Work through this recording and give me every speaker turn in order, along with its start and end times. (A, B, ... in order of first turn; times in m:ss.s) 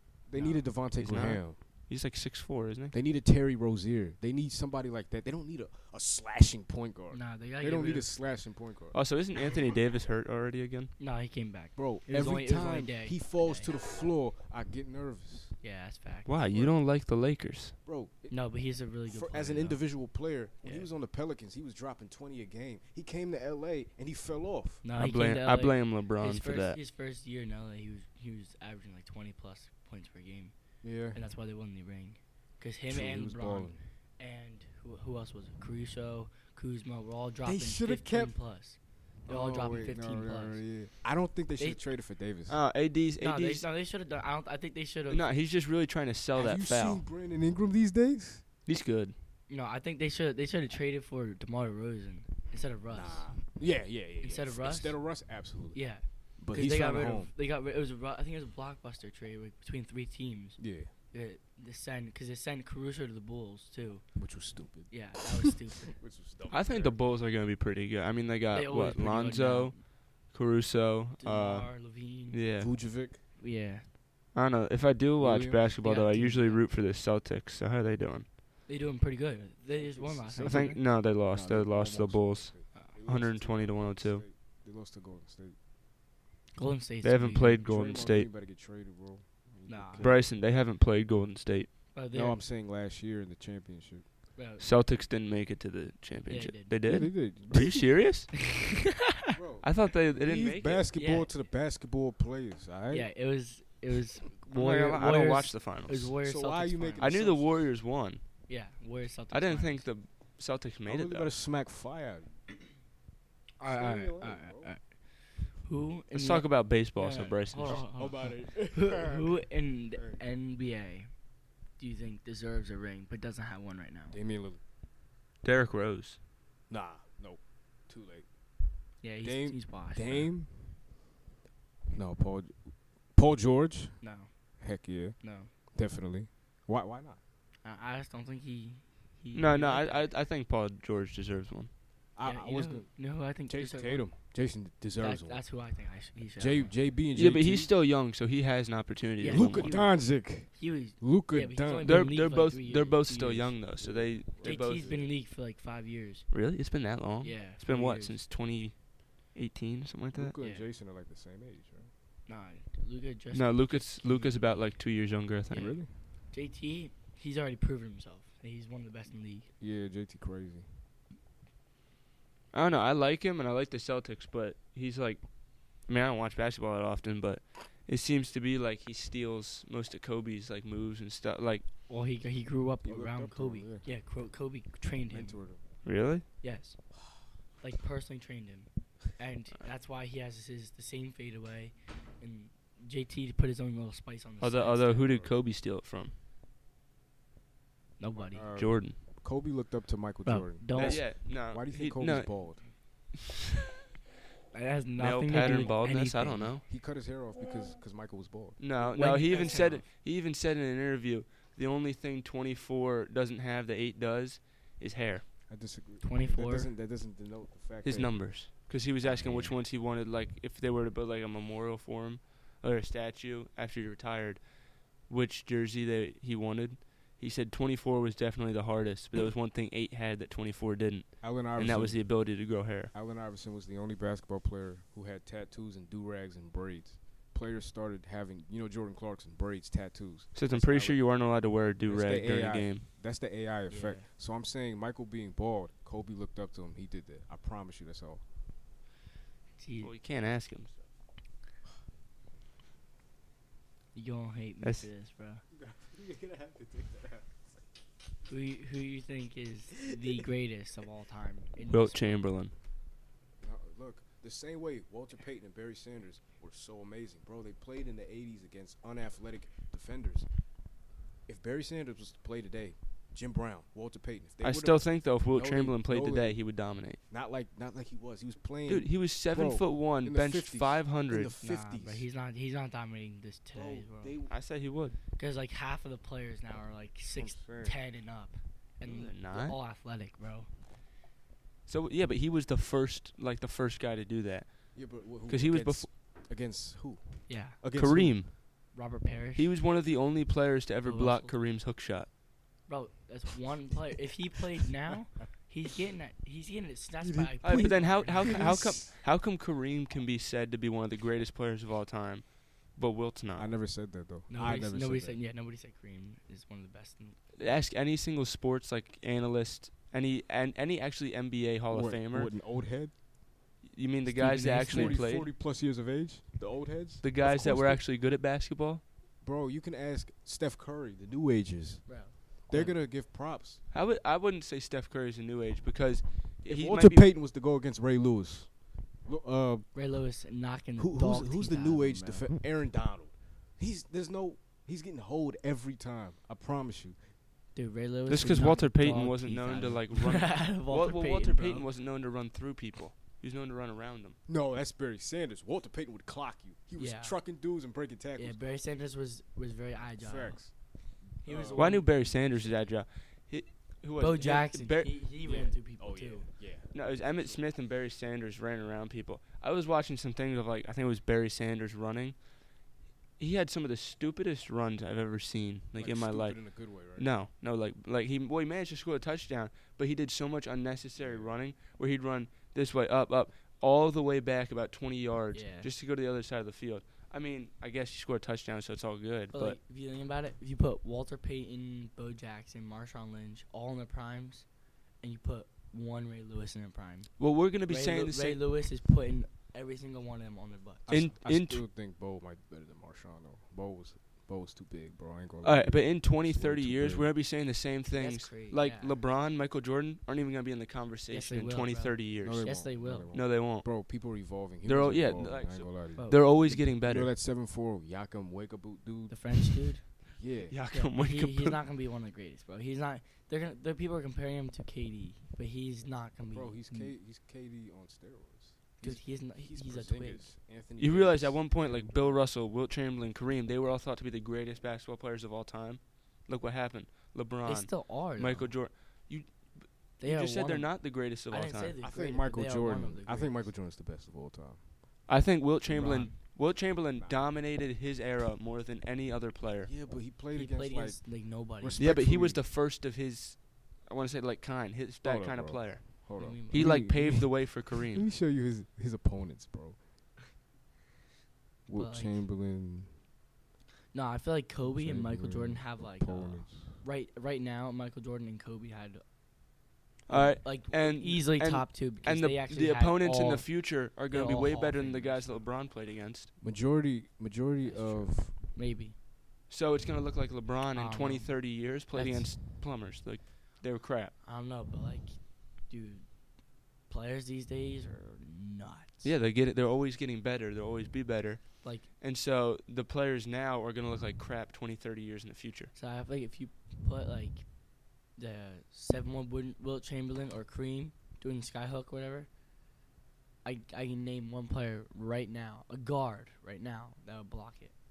0:00.3-0:01.6 A
0:00.3-0:00.7 B
0:01.0-0:03.0 C
0:02.9-0:09.0 A
0:07.1-0:08.1 B
0:08.9-0:10.9 C
0:11.0-0:13.7 B
0:11.8-0:15.6 A
0:15.6-0:16.4 B
0:16.3-0:17.8 C
0:16.5-0:16.8 A
0:17.8-0:18.4 A
0:18.3-0:20.1 B
0:19.0-0:24.8 A
0:20.6-0:20.9 B
0:24.8-0:30.6 B
0:25.0-0:26.8 C
0:30.8-0:31.2 A
0:31.1-0:40.6 B
0:32.9-0:33.8 A
0:37.4-0:38.4 A
0:39.3-0:42.6 A
0:41.6-0:41.8 B
0:42.5-0:43.7 C
0:43.2-0:45.3 B
0:45.1-0:47.0 C
0:46.4-0:48.5 A
0:48.7-0:49.2 C
0:49.5-0:53.4 B
0:52.9-0:57.3 A
0:54.2-1:04.2 B
1:00.6-1:00.9 A
1:04.2-1:05.2 A
1:04.9-1:06.0 B
1:05.9-1:07.0 A
1:06.5-1:12.7 C
1:08.5-1:09.8 B
1:11.2-1:12.6 B
1:12.6-1:13.2 A
1:13.4-1:13.9 B
1:14.3-1:18.3 C
1:15.2-1:15.7 A
1:15.8-1:16.6 B
1:18.7-1:20.8 B
1:19.7-1:25.6 A
1:20.4-1:24.2 C
1:26.6-1:27.7 B
1:27.0-1:28.3 C
1:27.6-1:30.3 A
1:29.7-1:30.2 B
1:30.0-1:31.7 C
1:31.9-1:32.4 B
1:32.1-1:34.2 A
1:34.4-1:34.6 B
1:34.6-1:38.4 C
1:36.3-1:36.8 B
1:36.8-1:37.9 A
1:39.3-1:43.1 A
1:39.6-1:40.9 C
1:41.0-1:41.3 B
1:42.9-1:47.1 B
1:44.5-1:46.1 C
1:46.2-1:47.7 A
1:47.0-1:48.2 C
1:48.5-1:49.9 B
1:49.3-1:51.3 C
1:50.9-1:52.6 A
1:53.6-2:01.2 B
1:53.6-1:54.7 A
1:56.1-1:57.9 C
1:57.6-1:59.4 A
2:00.0-2:00.2 A
2:01.8-2:04.2 B
2:04.1-2:04.6 A
2:05.4-2:06.2 C
2:06.7-2:08.3 A
2:09.0-2:10.3 B
2:09.2-2:10.8 A
2:11.9-2:14.0 A
2:14.0-2:14.3 B
2:14.6-2:17.2 A
2:15.2-2:15.5 B
2:17.6-2:20.1 B
2:19.3-2:21.7 C
2:22.2-2:25.5 A
2:22.2-2:24.1 B
2:25.0-2:26.8 B
2:26.4-2:27.7 A
2:27.1-2:29.8 C
2:29.2-2:33.6 B
2:29.3-2:32.1 A
2:31.8-2:34.9 C
2:33.8-2:35.1 A
2:34.4-2:36.3 B
2:36.3-2:40.4 C
2:37.2-2:38.2 B
2:40.1-2:41.9 A
2:40.4-2:40.7 B
2:42.3-2:44.8 B
2:43.3-2:45.8 C
2:45.5-2:45.9 A
2:46.3-2:49.5 B
2:49.6-2:50.7 A
2:52.5-3:01.7 C
3:01.9-3:05.4 B
3:02.8-3:03.9 A
3:05.1-3:05.6 A
3:05.8-3:06.3 C
3:06.4-3:06.8 B
3:07.6-3:15.2 B
3:14.4-3:16.1 C
3:15.0-3:15.3 A
3:18.0-3:18.5 B
3:18.2-3:22.7 A
3:18.6-3:19.0 C
3:20.2-3:21.1 B
3:20.8-3:22.7 C
3:24.5-3:26.6 B
3:25.0-3:26.6 C
3:25.4-3:25.7 A
3:26.7-3:29.8 A
3:28.6-3:35.3 C
3:28.9-3:29.8 B
3:35.5-3:38.5 A
3:36.0-3:36.7 B
3:37.8-3:52.9 C
3:39.0-3:39.6 A
3:51.2-4:08.2 A
4:00.4-4:02.9 C
4:03.7-4:04.1 B
4:09.6-4:09.9 B
4:09.8-4:10.7 C
4:13.9-4:15.4 B
4:15.5-4:17.4 A
4:18.3-4:22.2 B
4:21.7-4:22.5 C
4:23.4-4:30.3 A
4:31.3-4:36.4 A
4:34.4-4:37.0 C
4:37.1-4:42.1 A
4:38.7-4:41.3 C
4:41.4-4:44.2 B
4:43.5-4:44.4 A
4:44.3-4:45.0 C
4:45.2-4:50.5 B
4:47.2-4:47.8 A
4:48.8-4:49.6 C
4:51.7-4:55.9 C
4:54.7-4:58.2 A
4:57.3-4:57.6 B
4:57.7-4:58.4 C
4:58.7-4:59.6 B
4:59.4-5:02.1 C
5:00.8-5:01.4 B
5:02.7-5:08.6 B
5:07.0-5:08.9 A
5:07.4-5:13.5 C
5:13.4-5:15.2 A
5:14.3-5:17.4 B
5:17.4-5:22.3 C
5:21.7-5:23.0 A
5:23.6-5:25.3 C
5:24.1-5:25.0 B
5:24.6-5:27.8 A
5:27.0-5:28.8 C
5:29.2-5:33.6 A
5:31.9-5:32.8 B
5:33.7-5:37.1 C
5:36.4-5:39.7 A
5:39.7-5:42.3 B
5:40.8-5:47.1 A
5:47.5-5:51.7 B
5:48.1-5:54.2 C
5:54.3-5:58.4 A
5:56.8-5:57.2 B
5:58.2-6:00.7 B
6:00.0-6:02.5 A
6:01.2-6:02.5 B
6:01.6-6:05.5 C
6:04.0-6:06.3 B
6:05.2-6:07.4 A
6:06.7-6:12.3 C
6:13.2-6:29.6 C
6:15.8-6:17.1 A
6:21.0-6:21.4 A
6:25.3-6:25.7 B
6:29.3-6:34.5 B
6:35.0-6:41.0 B
6:37.2-6:38.4 C
6:40.9-6:47.1 A
6:40.9-6:41.6 C
6:45.4-6:53.8 C
6:47.9-6:49.0 B
6:51.1-6:53.1 B
6:52.2-7:00.6 A
6:54.6-6:57.1 C
6:56.0-6:56.4 B
6:59.1-7:00.2 B
7:00.5-7:01.6 C
7:00.7-7:06.9 B
7:06.3-7:12.3 A
7:08.8-7:10.3 B
7:10.8-7:21.8 C
7:17.4-7:18.6 B
7:20.0-7:23.5 B
7:21.8-7:24.7 A
7:25.1-7:29.7 C
7:25.7-7:26.2 B
7:27.0-7:27.3 A
7:29.6-7:32.4 A
7:30.3-7:31.9 B
7:31.8-7:38.1 C
7:35.0-7:39.8 A
7:36.2-7:37.0 B
7:41.7-7:43.0 A
7:41.7-7:42.2 B
7:43.9-7:49.0 B
7:44.6-7:46.8 A
7:50.1-7:56.3 C
7:50.1-7:55.5 B
7:56.4-7:58.4 A
7:57.6-7:59.0 B
7:59.5-8:04.2 C
8:00.7-8:02.4 B
8:04.2-8:06.1 B
8:06.9-8:09.1 B
8:09.0-8:15.7 C
8:11.6-8:11.9 B
8:15.7-8:17.5 B
8:18.1-8:22.3 B
8:23.4-8:27.7 B